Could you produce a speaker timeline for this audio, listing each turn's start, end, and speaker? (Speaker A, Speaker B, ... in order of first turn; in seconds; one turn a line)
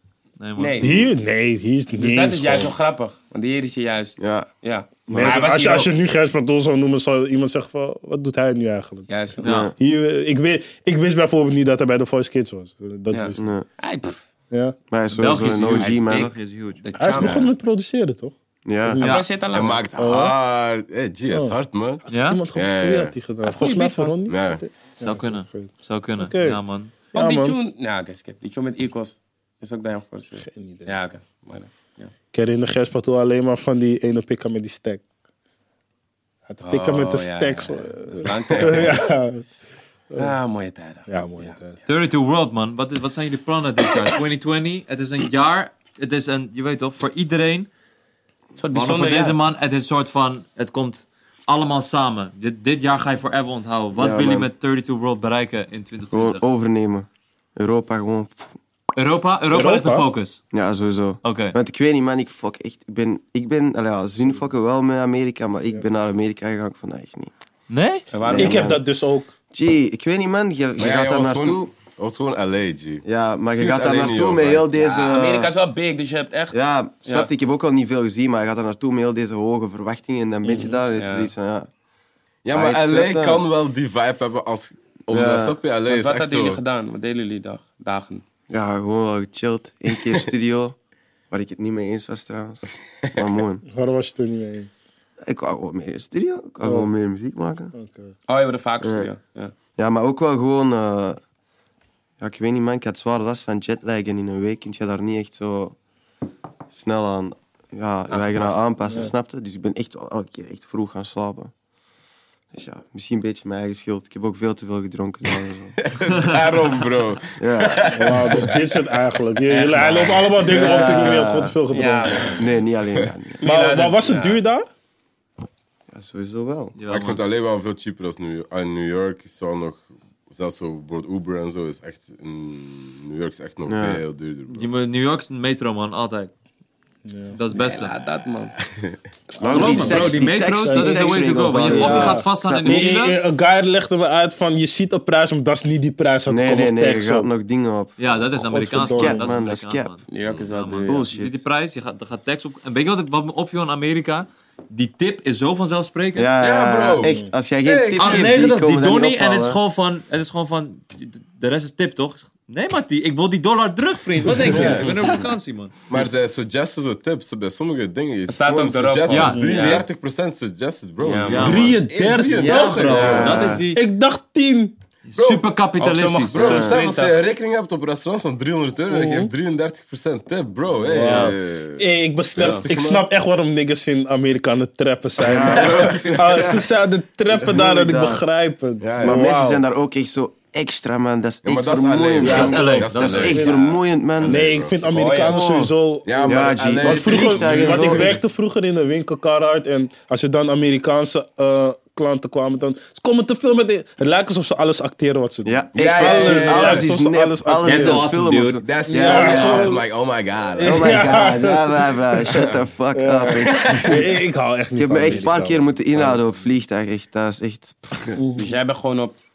Speaker A: 0.4-0.9
Speaker B: 0.6-1.1
Speaker C: 0.8-2.7
Speaker B: 1.9-5.9
Speaker D: 4.2-4.5
Speaker C: 5.1-9.1
Speaker B: 9.1-9.6
Speaker A: 9.4-9.7
Speaker D: 9.4-9.7
Speaker C: 9.8-13.5
Speaker B: 13.1-14.2
Speaker D: 13.4-13.7
Speaker C: 14.5-14.8
Speaker D: 14.9-16.3
Speaker A: 15.1-16.9
Speaker B: 16.8-17.5
Speaker C: 17.0-18.4
Speaker D: 18.6-19.0
Speaker B: 19.0-19.9
Speaker A: 19.0-19.3
Speaker E: 19.5-22.0
Speaker C: 19.9-20.4
Speaker C: 21.3-26.6
Speaker A: 22.1-22.4
Speaker E: 22.5-23.2
Speaker B: 23.4-24.2
Speaker E: 24.3-24.6
Speaker A: 25.0-26.9
Speaker C: 27.1-27.6
Speaker B: 27.1-32.1
Speaker C: 30.4-31.0
Speaker C: 32.3-35.0
Speaker C: 36.5-39.5
Speaker B: 36.6-39.0
Speaker B: 40.1-41.6
Speaker C: 41.1-41.8
Speaker A: 41.9-47.7
Speaker B: 48.6-49.4
Speaker A: 48.7-56.4
Speaker D: 54.0-54.5
Speaker D: 56.1-58.6
Speaker A: 59.0-60.4
Speaker C: 59.5-60.1
Speaker D: 60.5-67.3
Speaker A: 61.2-61.6
Speaker A: 67.7-68.1
Speaker B: 68.1-68.8
Speaker D: 68.3-68.8
Speaker C: 68.3-69.3
Speaker D: 69.5-71.7
Speaker E: 70.8-74.7
Speaker D: 73.0-75.5
Speaker B: 74.8-77.3
Speaker D: 76.5-81.7
Speaker B: 80.5-81.3
Speaker E: 82.5-86.6
Speaker D: 82.5-83.4
Speaker D: 85.1-85.6
Speaker B: 85.9-88.2
Speaker D: 88.5-90.8
Speaker D: 91.3-93.7
Speaker C: 93.7-94.7
Speaker D: 95.2-97.7
Speaker C: 96.6-96.9
Speaker C: 97.7-98.1
Speaker B: 98.3-99.5
Speaker D: 98.8-99.1
Speaker D: 99.8-101.2
Speaker D: 102.2-105.8
Speaker D: 106.7-111.5
Speaker B: 108.1-108.6
Speaker D: 112.5-115.8
Speaker E: 115.8-118.8
Speaker A: 116.1-116.7
Speaker D: 117.4-117.9
Speaker C: 117.9-122.5
Speaker B: 119.5-121.0
Speaker D: 120.4-121.6
Speaker B: 121.7-122.4
Speaker D: 122.3-123.4
Speaker B: 123.4-124.4
Speaker C: 123.4-124.7
Speaker D: 125.9-126.8
Speaker A: 126.8-127.2
Speaker E: 126.9-134.7
Speaker D: 133.7-134.0
Speaker A: 134.5-136.3
Speaker C: 137.1-137.4
Speaker A: 137.3-138.0
Speaker B: 137.5-138.6
Speaker E: 138.6-139.0
Speaker C: 139.4-140.1
Speaker D: 139.4-142.9
Speaker A: 139.5-143.2
Speaker B: 139.5-142.2
Speaker C: 140.7-147.3
Speaker D: 146.3-148.0
Speaker A: 148.0-156.3
Speaker C: 148.4-149.3
Speaker D: 148.5-149.9
Speaker B: 150.1-151.1
Speaker D: 150.9-151.4
Speaker D: 156.2-159.6
Speaker E: 156.4-158.3
Speaker C: 157.0-157.3
Speaker A: 158.0-165.8
Speaker E: 164.4-165.0
Speaker E: 165.9-173.6
Speaker B: 168.3-169.8
Speaker A: 169.1-169.9
Speaker B: 171.0-171.8
Speaker A: 171.3-173.8
Speaker C: 171.3-174.7
Speaker D: 172.9-173.7
Speaker A: 175.1-176.7
Speaker E: 175.2-175.4
Speaker B: 175.8-177.2
Speaker E: 176.3-183.1
Speaker D: 176.4-176.8
Speaker C: 178.9-179.3
Speaker C: 180.8-189.6
Speaker A: 181.0-181.3
Speaker D: 185.2-186.6
Speaker E: 185.3-186.6
Speaker D: 187.4-188.2
Speaker E: 188.8-189.3
Speaker D: 189.0-194.4
Speaker E: 191.4-193.5
Speaker A: 192.2-193.5
Speaker C: 192.3-192.6
Speaker C: 193.2-193.6
Speaker B: 193.4-193.7
Speaker E: 194.2-194.8
Speaker C: 194.2-208.1
Speaker B: 194.8-195.5
Speaker D: 195.2-195.7
Speaker E: 196.1-198.2
Speaker D: 196.2-198.2
Speaker D: 205.4-209.8
Speaker E: 205.8-206.9
Speaker A: 207.6-208.7
Speaker E: 208.6-211.1
Speaker C: 208.9-209.8
Speaker C: 210.6-216.2
Speaker D: 210.6-214.2
Speaker E: 212.3-212.6
Speaker E: 213.3-214.0
Speaker D: 214.8-218.2
Speaker C: 218.1-218.5
Speaker B: 218.3-219.2